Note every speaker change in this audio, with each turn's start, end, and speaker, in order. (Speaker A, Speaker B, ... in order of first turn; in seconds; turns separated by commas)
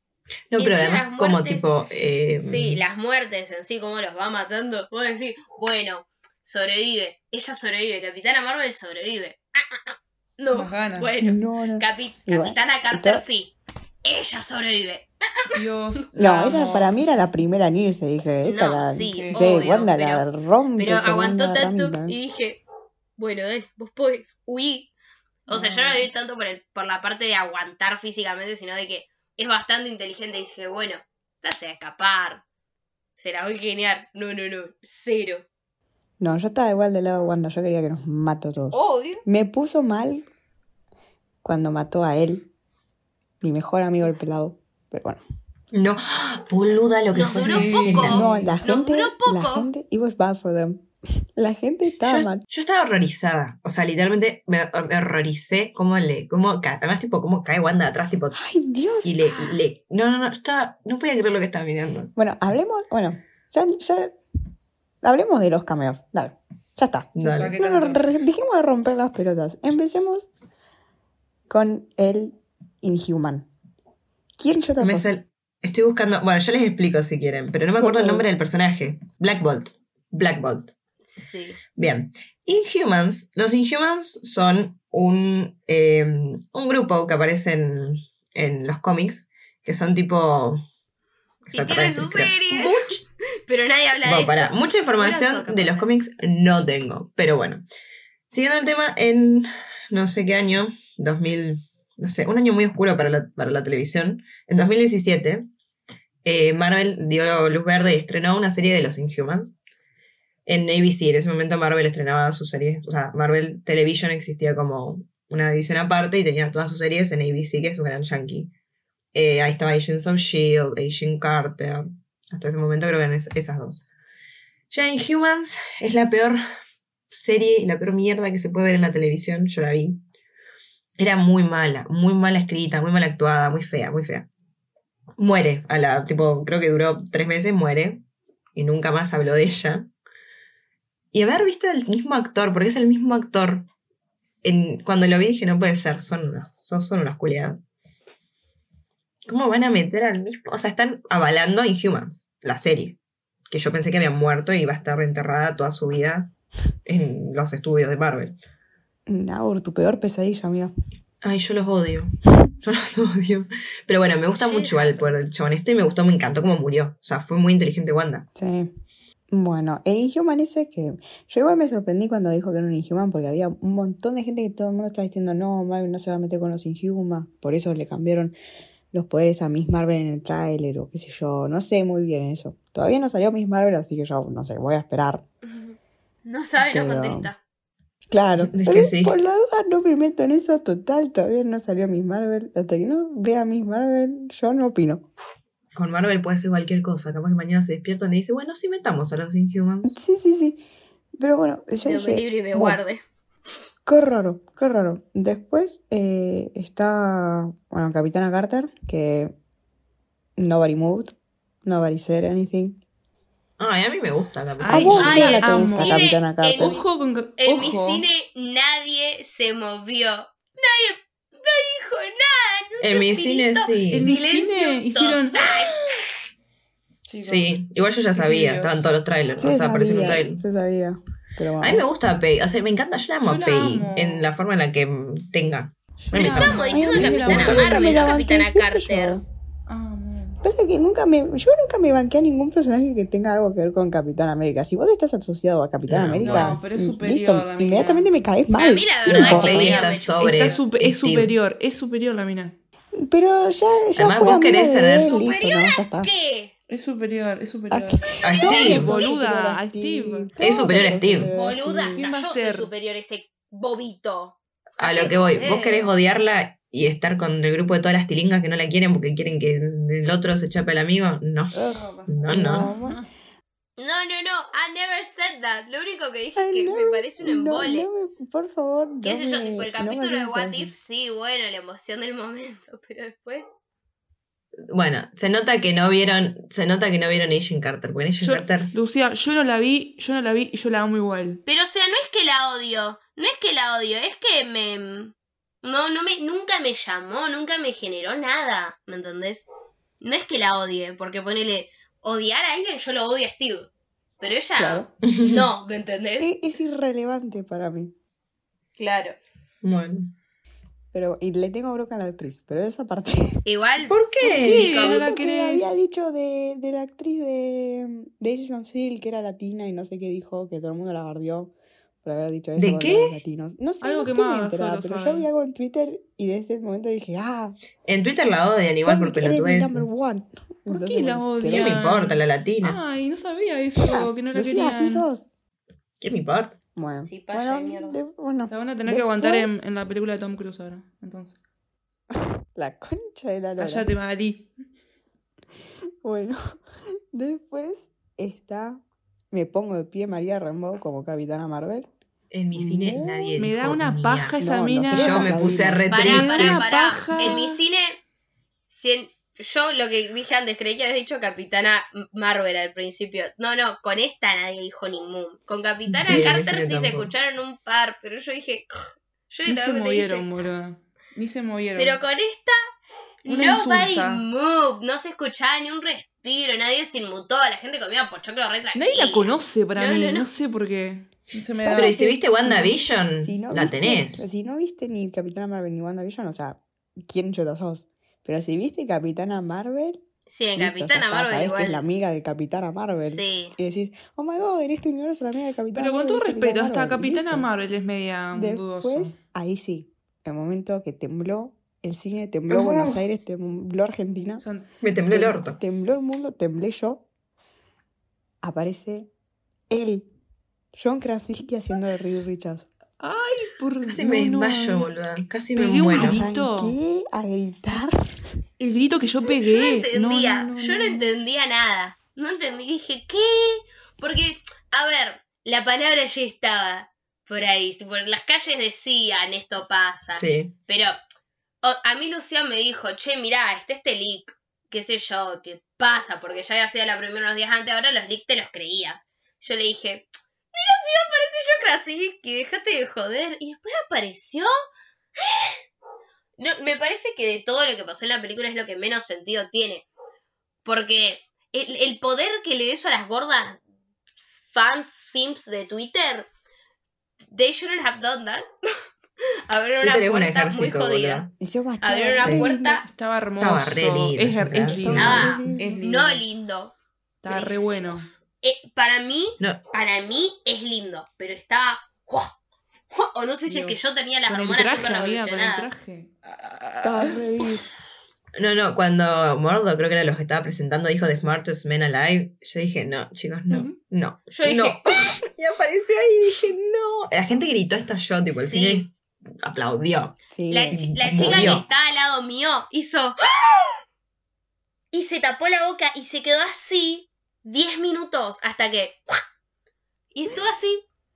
Speaker A: 0.5-2.8, Speaker B: 0.6-1.7, Speaker B: 2.4-13.5, Speaker C: 10.5-11.1, Speaker D: 11.2-13.2, Speaker B: 14.0-15.1, Speaker C: 15.5-17.0, Speaker D: 16.1-22.2, Speaker B: 18.4-20.2, Speaker C: 19.0-19.6, Speaker B: 20.8-22.6, Speaker B: 23.2-24.9, Speaker B: 25.4-32.4, Speaker C: 25.5-26.0, Speaker B: 33.2-35.4, Speaker D: 36.2-40.2, Speaker B: 38.7-39.2, Speaker D: 41.4-42.5, Speaker D: 43.4-45.2, Speaker A: 45.7-48.2, Speaker B: 47.1-49.7, Speaker C: 47.3-48.5, Speaker D: 48.1-52.4, Speaker A: 52.0-58.4, Speaker D: 58.3-59.2, Speaker A: 59.0-62.1, Speaker B: 59.2-59.6, Speaker D: 62.1-64.2, Speaker D: 65.0-70.3, Speaker A: 67.2-67.6, Speaker C: 67.2-68.0, Speaker D: 71.5-73.5, Speaker D: 74.4-75.1, Speaker A: 74.8-80.7, Speaker D: 77.8-78.2, Speaker B: 81.1-81.6, Speaker A: 81.7-90.6, Speaker A: 91.5-93.0, Speaker B: 91.5-92.8, Speaker B: 93.5-95.9, Speaker A: 94.0-97.6, Speaker A: 98.3-105.5, Speaker A: 106.2-109.6, Speaker A: 110.5-118.5, Speaker A: 119.1-123.8, Speaker A: 124.7-126.4, Speaker A: 127.1-130.0, Speaker A: 131.0-134.3, Speaker A: 135.2-138.0, Speaker A: 138.6-139.9, Speaker A: 141.1-143.7, Speaker A: 144.4-147.6, Speaker A: 149.2-153.0, Speaker A: 153.5-156.3, Speaker A: 156.8-158.4, Speaker D: 159.1-160.7, Speaker A: 161.2-168.2, Speaker B: 164.4-165.1, Speaker D: 168.3-168.7, Speaker D: 169.3-178.3, Speaker D: 178.9-185.2, Speaker B: 185.4-187.4, Speaker D: 186.6-187.3, Speaker D: 188.1-195.0, Speaker A: 188.4-189.2, Speaker A: 195.7-199.9, Speaker D: 199.8-200.6, Speaker D: 201.2-202.8, Speaker B: 201.8-203.0, Speaker D: 203.8-209.3, Speaker D: 210.4-212.8, Speaker A: 213.6-215.6, Speaker C: 214.6-218.0, Speaker D: 214.7-216.8, Speaker B: 215.0-216.8, Speaker B: 217.4-225.8, Speaker A: 222.8-224.1, Speaker C: 223.9-225.8, Speaker C: 227.1-227.5, Speaker A: 227.2-230.4, Speaker C: 228.1-228.9, Speaker D: 229.4-231.8, Speaker A: 231.6-237.8, Speaker C: 233.2-234.3, Speaker C: 236.1-238.2, Speaker B: 236.2-239.2, Speaker D: 236.7-239.2, Speaker C: 239.7-240.4, Speaker D: 240.4-249.9, Speaker A: 245.9-246.6, Speaker C: 246.2-248.1, Speaker B: 248.6-250.6, Speaker A: 249.1-251.3, Speaker C: 249.2-252.6, Speaker D: 253.0-256.1, Speaker A: 253.9-255.1, Speaker B: 255.0-256.5, Speaker C: 256.7-260.3, Speaker D: 257.7-262.0, Speaker B: 258.0-258.7, Speaker A: 258.2-258.9, Speaker A: 260.4-261.3, Speaker B: 260.8-265.9, Speaker C: 261.9-262.7, Speaker A: 264.8-272.7, Speaker D: 271.5-273.0, Speaker C: 271.7-273.1, Speaker B: 273.8-277.9, Speaker D: 276.4-280.7, Speaker B: 279.0-283.5, Speaker A: 284.7-288.7, Speaker C: 288.2-291.4, Speaker B: 291.4-299.5, Speaker B: 300.0-303.7, Speaker B: 304.2-306.3, Speaker D: 304.6-304.9, Speaker A: 305.1-305.5, Speaker D: 306.2-307.9, Speaker B: 308.8-309.1, Speaker A: 309.6-310.1, Speaker D: 310.9-313.4, Speaker B: 313.4-315.0, Speaker A: 313.9-314.7, Speaker D: 314.2-321.5, Speaker C: 314.3-315.7, Speaker D: 322.0-327.6, Speaker A: 322.6-323.2, Speaker C: 323.8-325.3, Speaker A: 327.9-329.9, Speaker D: 328.9-331.8, Speaker C: 330.7-335.1, Speaker A: 331.4-332.8, Speaker D: 333.8-335.3, Speaker A: 336.0-336.6, Speaker D: 336.8-339.6, Speaker B: 337.0-338.0, Speaker C: 338.5-341.4, Speaker D: 342.5-343.9, Speaker C: 343.6-344.5, Speaker D: 346.0-346.6, Speaker D: 347.1-351.9, Speaker A: 352.3-354.4, Speaker D: 352.5-353.5, Speaker C: 353.4-355.3, Speaker D: 354.4-355.9, Speaker A: 354.9-357.1, Speaker B: 355.9-358.0, Speaker C: 355.9-357.6, Speaker B: 358.7-368.7, Speaker A: 365.9-367.1, Speaker B: 369.3-370.4, Speaker C: 369.4-372.0, Speaker B: 371.8-372.6, Speaker B: 373.2-380.3, Speaker C: 373.2-374.2, Speaker C: 378.7-382.7, Speaker D: 381.6-390.0, Speaker A: 381.7-384.2, Speaker B: 390.3-391.8, Speaker D: 390.6-397.5, Speaker B: 393.0-393.6, Speaker C: 395.8-399.1, Speaker D: 398.3-404.4, Speaker A: 402.5-403.0, Speaker C: 404.4-404.7, Speaker A: 404.8-405.6, Speaker D: 405.1-407.1, Speaker D: 408.4-409.1, Speaker D: 409.7-410.1, Speaker D: 410.7-412.7, Speaker C: 413.0-414.9, Speaker A: 413.9-416.2, Speaker C: 415.5-416.8, Speaker D: 415.9-418.2, Speaker C: 418.6-421.1, Speaker B: 419.4-431.0, Speaker A: 430.1-430.5, Speaker B: 431.6-444.5, Speaker B: 445.2-445.5, Speaker B: 446.4-449.9, Speaker B: 450.6-453.6, Speaker B: 454.2-456.3, Speaker B: 457.3-458.4, Speaker B: 459.5-461.2, Speaker A: 459.8-461.3, Speaker D: 461.4-462.8, Speaker B: 461.8-462.8, Speaker C: 462.8-466.2, Speaker A: 463.4-465.4, Speaker D: 464.7-465.8, Speaker B: 464.9-466.7, Speaker C: 467.2-468.1, Speaker B: 467.3-472.3, Speaker B: 472.9-475.8, Speaker C: 473.5-476.1, Speaker A: 476.2-477.2, Speaker D: 476.8-477.7, Speaker A: 478.4-490.1, Speaker C: 483.5-483.8, Speaker B: 484.3-485.1, Speaker B: 488.3-488.8, Speaker D: 490.3-491.6, Speaker B: 490.5-493.8, Speaker A: 490.7-491.6, Speaker B: 494.9-499.2, Speaker B: 500.1-500.8